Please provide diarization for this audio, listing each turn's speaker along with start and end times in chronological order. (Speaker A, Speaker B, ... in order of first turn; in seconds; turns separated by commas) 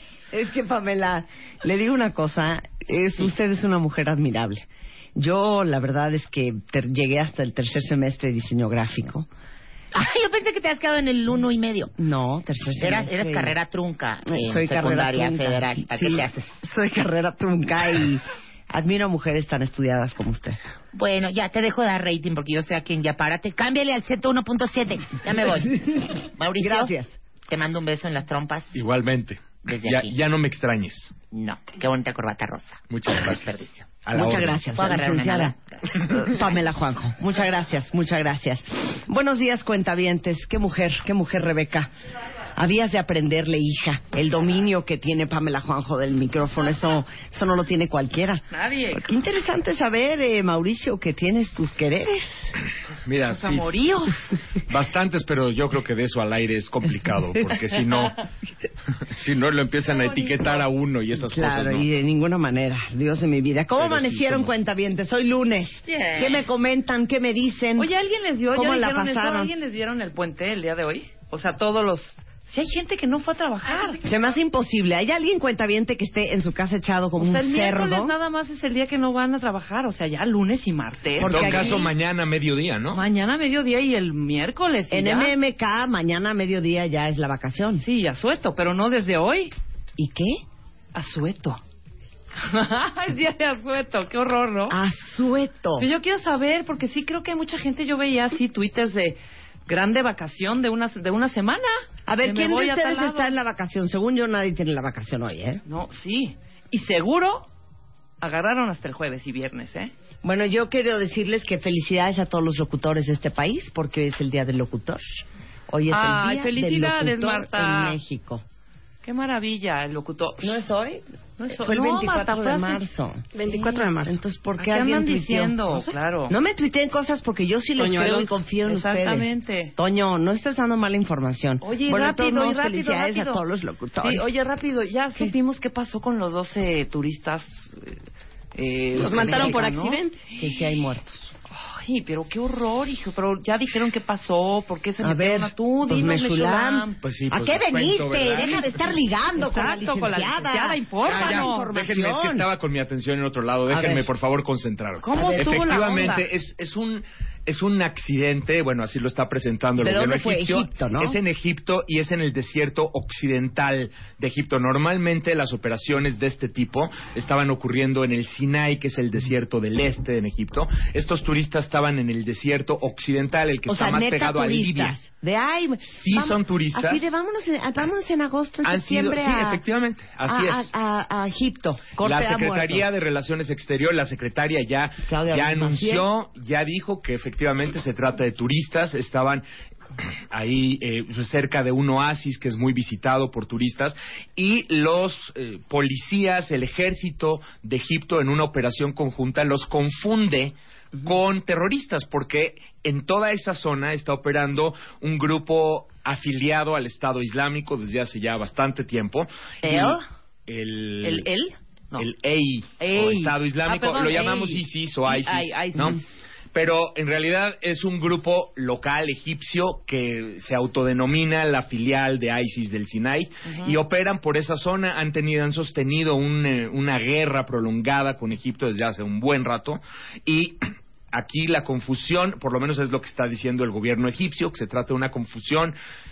Speaker A: 0.3-9.3, Speaker B: 9.9-11.9, Speaker A: 12.0-13.6, Speaker B: 12.8-16.5, Speaker A: 14.3-20.6, Speaker B: 20.9-26.9, Speaker A: 26.6-27.2, Speaker B: 27.5-28.7, Speaker C: 28.7-31.2, Speaker B: 29.6-30.2, Speaker B: 31.3-33.8, Speaker C: 32.9-34.6, Speaker A: 34.1-35.5, Speaker B: 34.8-35.6, Speaker A: 36.0-41.9, Speaker A: 42.6-52.6, Speaker D: 48.5-49.1, Speaker C: 53.0-53.7, Speaker D: 53.2-54.4, Speaker C: 54.7-58.2, Speaker C: 59.1-61.9, Speaker D: 59.9-60.7, Speaker A: 61.2-67.9, Speaker C: 63.8-64.5, Speaker D: 65.9-66.4, Speaker B: 66.0-66.4, Speaker D: 67.8-74.0, Speaker A: 68.5-69.5, Speaker A: 74.0-78.2, Speaker D: 77.2-81.9, Speaker A: 81.2-81.9, Speaker C: 81.3-83.0, Speaker D: 82.9-85.3, Speaker A: 84.9-87.8, Speaker D: 87.8-89.5, Speaker A: 90.0-90.4, Speaker D: 90.9-91.6, Speaker D: 92.4-94.8, Speaker A: 94.7-95.9, Speaker D: 95.8-101.7, Speaker A: 102.1-105.6, Speaker D: 102.2-103.4, Speaker D: 105.7-107.5, Speaker D: 108.2-109.9, Speaker A: 110.2-118.4, Speaker D: 115.9-118.0, Speaker D: 119.0-120.6, Speaker A: 120.4-123.3, Speaker D: 121.4-122.8, Speaker E: 123.3-124.2, Speaker D: 123.5-123.8, Speaker A: 124.0-134.3, Speaker D: 124.6-126.4, Speaker E: 127.8-128.2, Speaker D: 128.0-129.8, Speaker D: 131.6-133.4, Speaker D: 134.0-138.0, Speaker D: 138.6-140.0, Speaker E: 139.0-140.2, Speaker A: 139.0-139.6, Speaker A: 140.4-141.3, Speaker D: 141.5-147.0, Speaker A: 145.0-146.9, Speaker C: 147.0-148.7, Speaker B: 147.3-148.9, Speaker A: 147.8-152.5, Speaker D: 149.4-151.7, Speaker C: 151.0-174.9, Speaker A: 153.7-154.1, Speaker D: 155.0-156.3, Speaker A: 155.2-155.6, Speaker A: 159.8-161.2, Speaker A: 173.7-179.6, Speaker C: 175.9-177.1, Speaker C: 178.6-180.7, Speaker A: 180.3-182.9, Speaker C: 182.0-189.4, Speaker A: 185.1-186.1, Speaker C: 190.0-211.3, Speaker D: 209.6-210.0, Speaker D: 211.0-212.1, Speaker C: 212.0-216.0, Speaker D: 212.8-216.1, Speaker C: 216.5-230.6, Speaker D: 223.5-223.8, Speaker C: 231.1-235.8